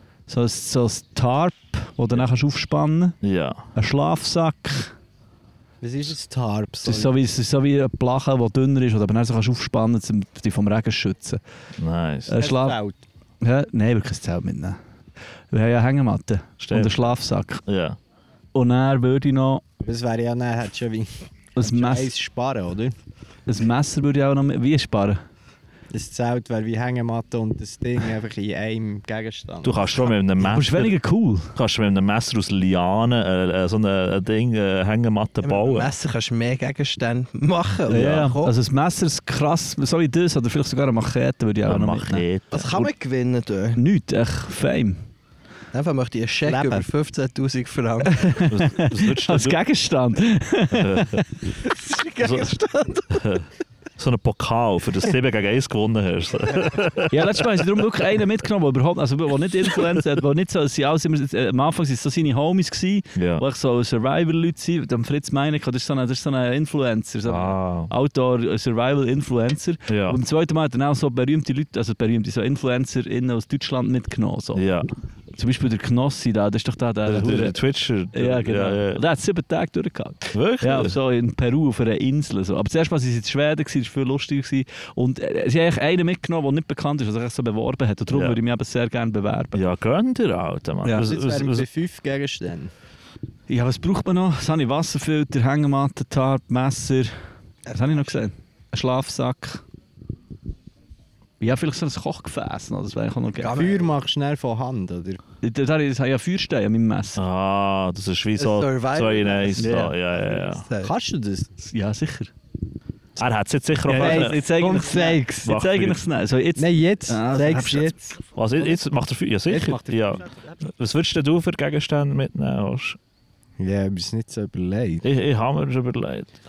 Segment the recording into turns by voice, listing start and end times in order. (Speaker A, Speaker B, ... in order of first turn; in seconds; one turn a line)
Speaker A: 0.3-3.2
Speaker B: 3.2-3.6
Speaker A: 3.7-4.9
Speaker C: 5.8-7.1
Speaker A: 6.8-11.4
Speaker B: 11.8-12.3
Speaker A: 12.3-12.8
Speaker C: 12.4-13.0
Speaker A: 13.4-14.8
Speaker A: 15.5-17.6
Speaker B: 16.6-17.1
Speaker B: 17.6-18.0
Speaker A: 18.5-19.6
Speaker C: 19.8-22.9
Speaker A: 21.6-22.1
Speaker A: 23.5-25.2
Speaker C: 25.9-30.1
Speaker B: 29.6-30.9
Speaker A: 30.4-31.5
Speaker B: 31.5-35.9
Speaker D: 35.4-38.5
Speaker A: 37.9-42.2
Speaker B: 41.6-42.9
Speaker D: 42.5-43.8
Speaker A: 43.8-45.0
Speaker D: 45.7-48.3
Speaker C: 46.4-46.9
Speaker A: 48.1-51.3
Speaker B: 48.5-49.6
Speaker B: 50.7-51.2
Speaker D: 51.6-53.3
Speaker B: 52.2-52.5
Speaker B: 53.1-53.5
Speaker B: 54.0-57.4
Speaker A: 57.1-74.6
Speaker B: 63.1-63.4
Speaker B: 67.3-67.9
Speaker B: 69.9-70.2
Speaker B: 74.5-74.9
Speaker A: 75.3-77.6
Speaker B: 77.0-79.0
Speaker A: 78.1-89.6
Speaker B: 80.3-80.9
Speaker B: 88.1-88.4
Speaker B: 89.5-91.7
Speaker C: 90.9-92.7
Speaker A: 93.5-97.2
Speaker D: 97.7-98.2
Speaker A: 97.7-99.6
Speaker A: 101.4-103.5
Speaker D: 103.4-104.0
Speaker C: 103.5-105.2
Speaker A: 105.4-107.2
Speaker B: 107.2-110.6
Speaker D: 108.4-110.9
Speaker A: 109.6-109.9
Speaker C: 110.8-111.5
Speaker A: 111.6-112.3
Speaker B: 113.2-114.9
Speaker A: 113.9-118.0
Speaker C: 113.9-115.5
Speaker B: 115.4-116.0
Speaker C: 116.5-118.1
Speaker B: 118.3-123.0
Speaker C: 119.5-120.2
Speaker C: 123.6-125.0
Speaker B: 125.0-126.3